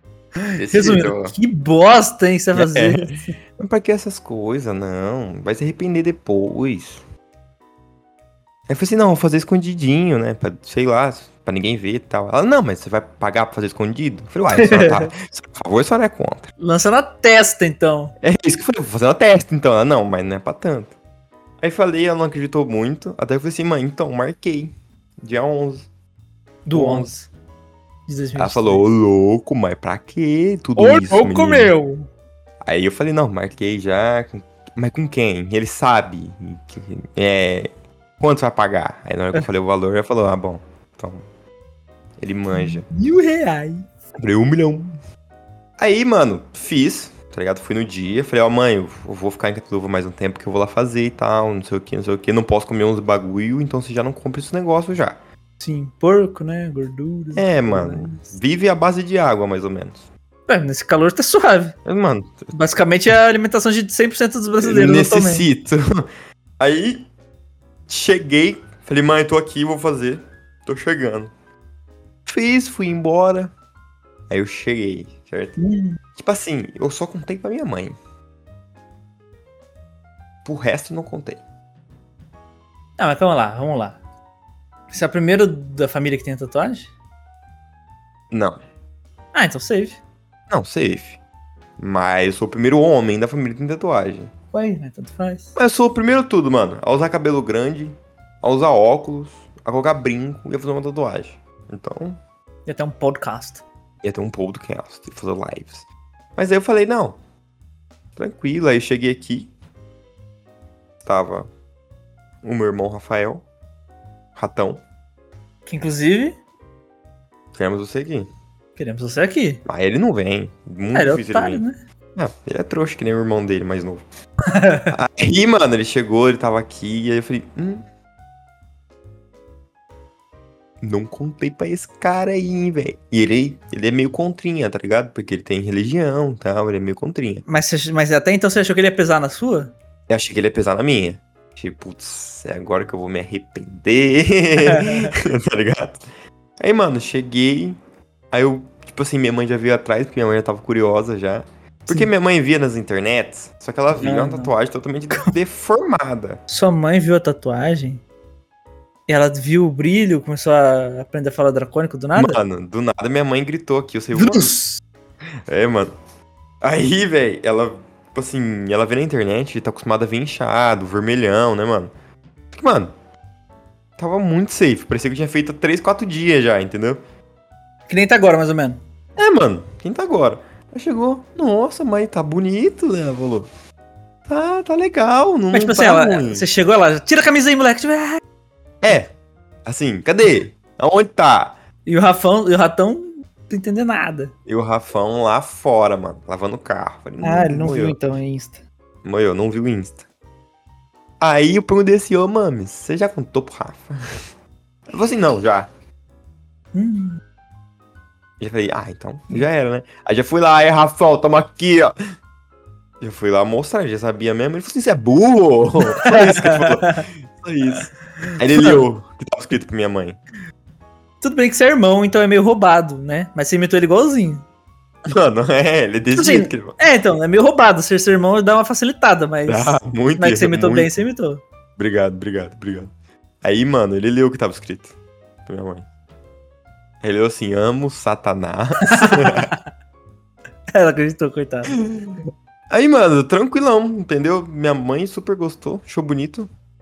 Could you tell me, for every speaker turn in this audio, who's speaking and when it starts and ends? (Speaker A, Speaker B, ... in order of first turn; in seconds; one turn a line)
Speaker A: 0.4-1.4
Speaker B: 0.7-3.3
Speaker A: 2.5-7.0
Speaker A: 8.7-16.5
Speaker B: 14.5-15.1
Speaker B: 16.6-18.1
Speaker A: 18.2-20.9
Speaker A: 21.6-25.9
Speaker B: 26.6-27.3
Speaker A: 26.7-27.1
Speaker B: 28.1-28.8
Speaker A: 28.4-31.7
Speaker B: 30.8-32.1
Speaker A: 32.6-41.2
Speaker A: 42.2-42.9
Speaker B: 42.5-43.9
Speaker A: 44.2-44.9
Speaker A: 45.8-55.2
Speaker B: 55.6-58.3
Speaker A: 57.3-60.1
Speaker B: 60.5-61.8
Speaker A: 61.8-62.5
Speaker B: 62.5-65.4
Speaker A: 64.6-66.1
Speaker A: 66.6-67.1
Speaker A: 67.9-71.3
Speaker A: 72.2-73.5
Speaker A: 74.3-75.6
Speaker B: 75.6-76.0
Speaker A: 76.1-78.0
Speaker A: 80.4-81.4
Speaker B: 83.0-84.0
Speaker B: 84.9-86.9
Speaker A: 88.3-88.6
Speaker B: 89.3-90.0
Speaker A: 90.5-91.2
Speaker A: 91.8-94.3
Speaker B: 94.5-95.5
Speaker A: 95.5-102.2
Speaker B: 102.7-103.6
Speaker A: 104.0-107.2
Speaker A: 108.2-109.5
Speaker A: 111.0-111.5
Speaker A: 112.4-113.4
Speaker A: 114.3-114.8
Speaker B: 115.7-116.4
Speaker A: 117.5-118.3
Speaker B: 118.8-119.6
Speaker A: 119.7-121.6
Speaker B: 120.9-121.7
Speaker A: 122.2-124.0
Speaker B: 124.5-124.9
Speaker A: 124.9-127.8
Speaker A: 130.8-137.4
Speaker B: 137.4-139.7
Speaker A: 140.1-146.0
Speaker B: 144.6-145.1
Speaker A: 146.6-147.8
Speaker A: 148.3-156.4
Speaker B: 153.9-154.5
Speaker B: 156.5-158.0
Speaker B: 159.1-162.4
Speaker A: 162.1-164.5
Speaker B: 164.1-164.8
Speaker A: 165.5-165.9
Speaker A: 166.6-171.9
Speaker A: 172.5-172.9
Speaker A: 174.0-177.0
Speaker B: 177.9-178.8
Speaker A: 179.2-183.5
Speaker A: 184.3-186.4
Speaker B: 185.5-188.2
Speaker A: 188.8-189.1
Speaker A: 189.7-191.6
Speaker B: 191.8-194.3
Speaker A: 194.4-198.0
Speaker B: 197.2-198.6
Speaker A: 199.0-200.1
Speaker A: 201.2-204.2
Speaker A: 204.9-205.7
Speaker B: 206.7-207.2
Speaker A: 208.4-211.9
Speaker A: 213.0-220.2
Speaker B: 216.0-217.0
Speaker B: 218.5-218.9
Speaker B: 221.2-224.4
Speaker A: 225.1-226.8
Speaker B: 226.1-231.4
Speaker A: 229.5-231.0
Speaker A: 231.8-232.9
Speaker A: 233.4-234.9
Speaker A: 235.4-235.9
Speaker A: 237.0-239.5
Speaker B: 238.8-239.6
Speaker B: 240.7-241.8
Speaker A: 241.7-242.2
Speaker A: 242.7-246.5